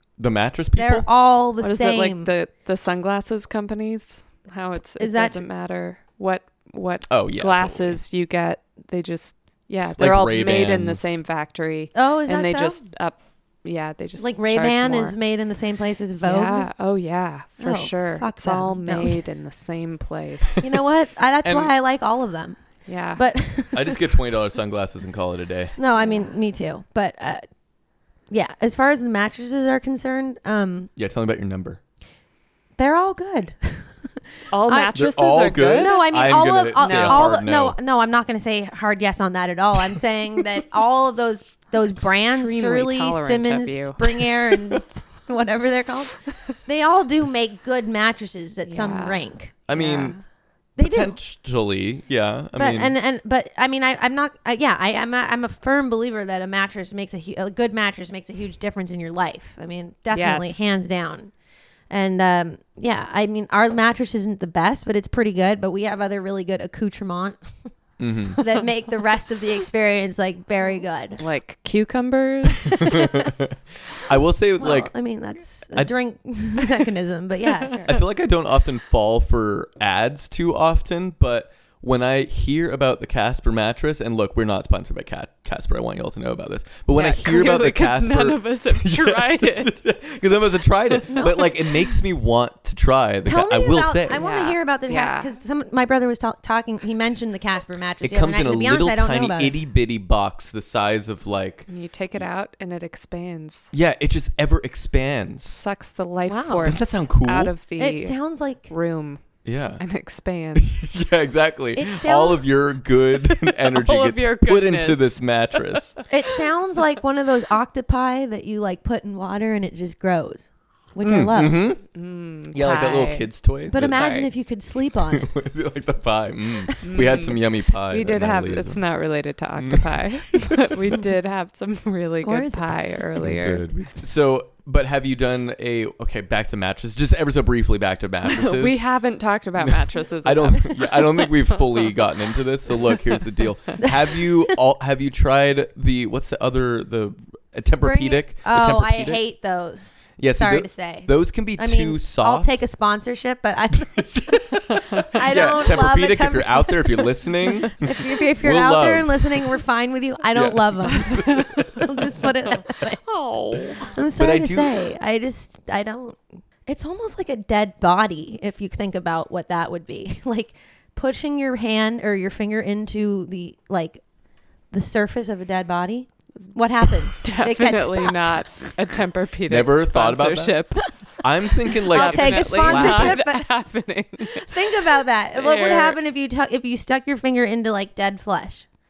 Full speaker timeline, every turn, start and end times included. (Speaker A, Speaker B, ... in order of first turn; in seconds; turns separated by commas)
Speaker A: 0.2-1.1, Speaker B: 0.7-2.3, Speaker C: 1.6-15.2, Speaker B: 5.0-5.4, Speaker A: 7.1-8.0, Speaker A: 10.0-11.1, Speaker B: 11.9-12.8, Speaker B: 14.2-16.7, Speaker C: 16.2-20.7, Speaker B: 17.6-19.2, Speaker B: 20.6-22.6, Speaker A: 21.4-21.7, Speaker C: 22.9-23.2, Speaker B: 23.1-24.0, Speaker A: 23.7-25.8, Speaker B: 25.8-27.4, Speaker C: 26.0-26.3, Speaker B: 28.3-30.9, Speaker A: 30.9-31.8, Speaker B: 32.8-34.9, Speaker C: 34.5-36.1, Speaker A: 34.9-37.8, Speaker B: 35.7-49.5, Speaker C: 36.8-37.3, Speaker C: 41.8-44.0, Speaker C: 48.6-50.2, Speaker A: 49.7-50.2, Speaker B: 50.8-51.1, Speaker A: 50.8-52.9, Speaker B: 52.5-61.3, Speaker C: 60.1-60.7, Speaker B: 61.9-67.4, Speaker A: 68.0-68.4, Speaker B: 68.4-71.2, Speaker C: 71.2-73.1, Speaker A: 72.8-74.9, Speaker B: 74.6-78.0, Speaker A: 77.8-94.2, Speaker C: 86.9-89.8, Speaker C: 91.1-91.4, Speaker B: 91.2-91.5, Speaker B: 93.2-99.6, Speaker C: 94.1-95.3, Speaker A: 98.0-101.7, Speaker C: 101.7-103.7, Speaker A: 103.7-105.6, Speaker C: 105.5-109.2, Speaker B: 106.3-106.8, Speaker A: 106.6-107.5, Speaker B: 107.8-108.7, Speaker A: 109.4-109.8, Speaker C: 109.8-110.8, Speaker A: 110.5-116.0, Speaker B: 111.7-112.4, Speaker C: 113.6-115.8, Speaker B: 116.1-121.6, Speaker A: 121.0-121.8, Speaker C: 121.9-124.3, Speaker A: 122.5-124.0, Speaker B: 123.7-125.3, Speaker A: 125.1-128.8, Speaker C: 126.8-133.6, Speaker A: 129.6-129.9, Speaker B: 132.2-132.7, Speaker A: 133.2-138.8, Speaker C: 138.2-141.6, Speaker A: 139.6-149.2, Speaker B: 147.7-153.9, Speaker A: 150.2-152.5, Speaker A: 153.7-159.5, Speaker B: 155.1-163.0, Speaker A: 160.3-161.9, Speaker C: 162.7-163.9, Speaker B: 163.7-174.0, Speaker A: 164.2-164.8, Speaker B: 174.7-178.4, Speaker C: 176.4-181.1, Speaker A: 179.5-183.2, Speaker C: 181.7-186.0, Speaker B: 181.9-183.5, Speaker B: 184.3-188.7